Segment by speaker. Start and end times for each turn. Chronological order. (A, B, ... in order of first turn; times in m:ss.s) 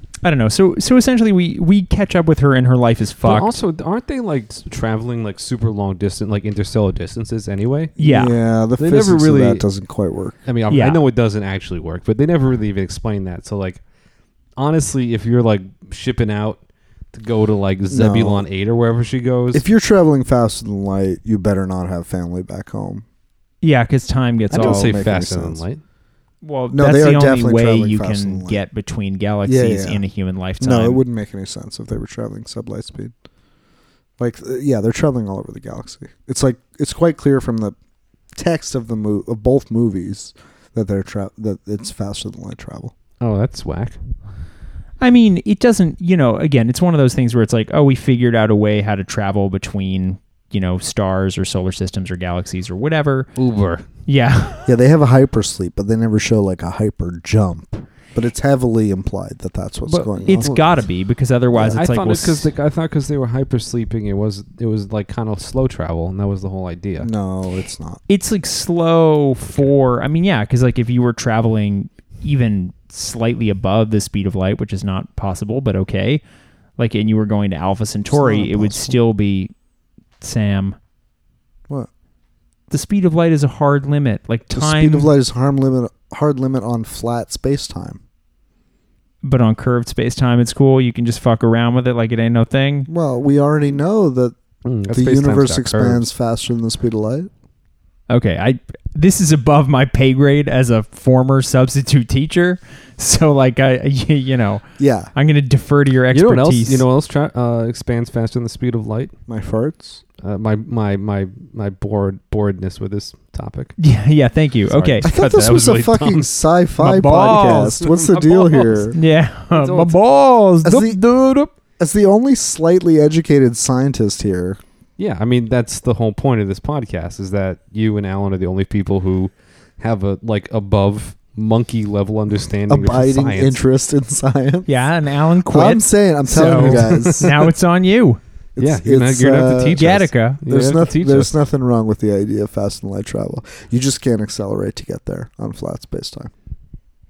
0:00.2-0:03.6 A
0:03.2-0:08.0 B
0:08.0-0:08.4 A
0:08.0-0:10.4 C
0:08.8-0:09.6 B
0:10.4-0:13.8 B
0:10.7-0:11.0 A
0:14.6-0:16.6 B
0:17.1-0:19.6 B
0:17.9-0:18.4 C
0:19.5-0:23.0 C
0:23.6-0:24.9 A
0:24.5-0:25.6 C
0:24.5-0:25.8 B
0:26.4-0:31.0 A
0:26.7-0:28.6 C
0:29.4-0:30.0 C
0:30.6-0:33.1 C
0:34.2-0:37.7 C
0:38.4-0:42.9 C
0:43.2-0:44.0 B
0:45.0-0:53.3 A
0:53.4-0:53.8 B
0:54.0-0:54.7 A
0:54.6-1:00.5 C
0:59.8-1:00.7 B
1:00.2-1:02.5 A
1:01.7-1:07.1 B
1:07.0-1:08.0 C
1:08.1-1:16.2 A
1:16.8-1:19.5 A
1:18.1-1:19.0 C
1:20.2-1:20.8 A
1:22.7-1:25.1 A
1:24.5-1:28.0 C
1:29.2-1:32.9 A
1:32.9-1:34.4 C
1:34.6-1:36.0 B
1:34.9-1:37.3 C
1:38.1-1:44.6 A
1:44.8-1:45.1 C
1:45.1-1:46.8 A
1:46.1-1:49.1 B
1:49.3-1:50.0 C
1:50.2-1:53.7 B
1:53.8-1:55.1 A
1:54.7-1:56.3 B
1:55.0-1:59.0 C
1:56.8-1:57.8 A
1:57.5-1:58.9 B
1:58.9-2:01.5 A
1:59.5-2:00.0 B
2:00.6-2:01.0 C
2:01.8-2:04.6 C
2:05.0-2:13.6 B
2:12.7-2:14.7 C
2:14.7-2:18.2 A
2:15.4-2:17.3 C
2:16.4-2:17.3 B
2:18.6-2:20.0 C
2:18.6-2:21.3 B
2:19.7-2:20.4 A
2:20.5-2:26.3 C